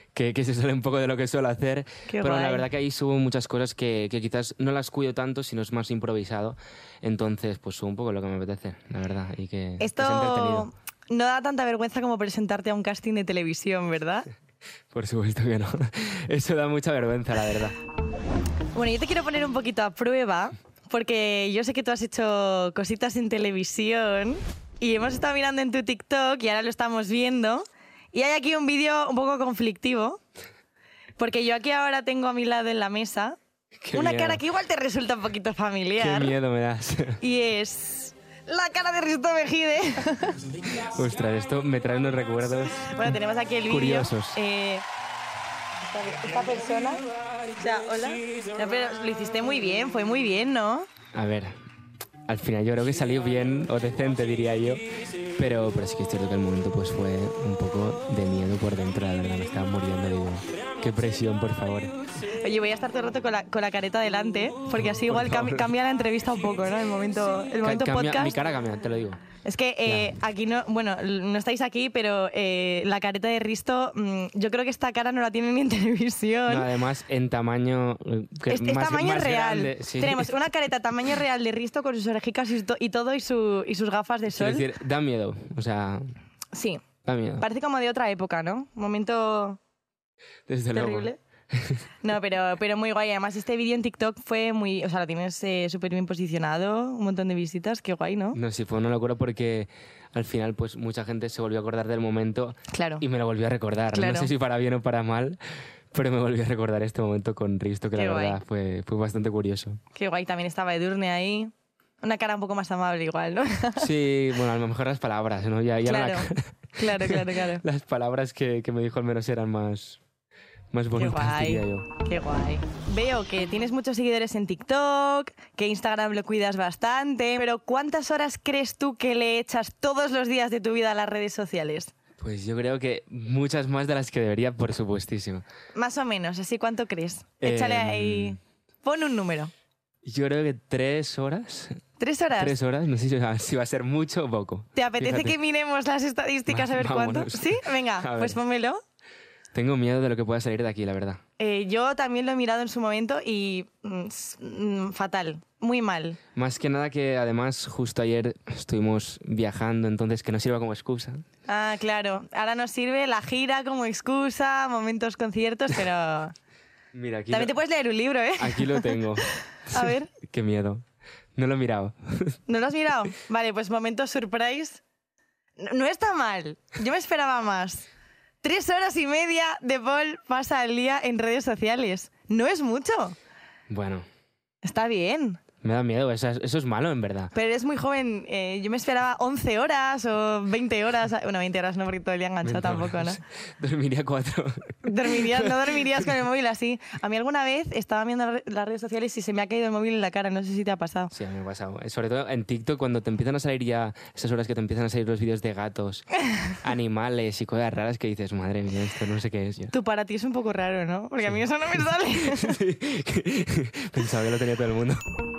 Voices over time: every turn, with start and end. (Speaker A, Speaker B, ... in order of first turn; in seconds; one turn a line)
Speaker A: 0.1-10.7
Speaker B: 2.1-2.6
Speaker B: 9.8-14.3
Speaker A: 14.9-17.8
Speaker B: 18.7-30.2
Speaker B: 31.2-33.4
Speaker A: 33.8-34.4
Speaker B: 33.9-36.4
Speaker A: 36.0-37.2
Speaker B: 37.2-40.5
Speaker A: 40.8-42.9
Speaker B: 42.8-44.8
Speaker A: 43.7-44.4
Speaker B: 45.8-47.0
Speaker B: 47.6-50.9
Speaker A: 51.1-51.5
Speaker A: 52.3-54.8
Speaker A: 55.4-61.9
Speaker B: 62.4-68.3
Speaker A: 64.8-65.7
Speaker A: 67.6-69.2
Speaker B: 69.4-76.7
Speaker A: 69.8-70.1
Speaker A: 76.5-80.3
Speaker B: 78.5-84.7
Speaker A: 84.3-86.0
Speaker B: 86.5-86.8
Speaker A: 87.0-87.5
Speaker B: 87.4-89.6
Speaker A: 90.5-91.8
Speaker B: 90.7-91.2
Speaker B: 92.0-98.4
Speaker A: 98.3-105.4
Speaker B: 102.7-103.0
Speaker B: 103.9-104.3
Speaker A: 105.9-109.8
Speaker B: 107.9-108.4
Speaker B: 109.9-113.9
Speaker A: 113.8-120.0
Speaker B: 115.8-117.6
Speaker A: 120.7-121.8
Speaker B: 121.0-131.9
Speaker A: 132.2-135.4
Speaker B: 135.7-139.5
Speaker A: 137.4-138.4
Speaker A: 140.0-141.8
Speaker B: 142.0-142.6
Speaker A: 142.4-145.3
Speaker B: 144.7-148.8
Speaker A: 146.5-148.4
Speaker A: 149.5-151.2
Speaker B: 151.4-156.2
Speaker A: 156.3-161.2
Speaker B: 161.5-166.3
Speaker A: 166.9-167.5
Speaker B: 167.3-168.9
Speaker A: 168.4-170.8
Speaker B: 169.7-170.1
Speaker A: 171.3-172.4
Speaker B: 172.5-174.8
Speaker B: 175.6-177.9
Speaker B: 178.4-183.2
Speaker A: 183.7-184.0
Speaker B: 184.6-185.4
Speaker A: 185.6-187.3
Speaker B: 187.3-193.2
Speaker A: 192.4-195.6
Speaker B: 194.8-201.1
Speaker A: 201.1-209.7
Speaker B: 209.7-212.6
Speaker A: 211.2-215.0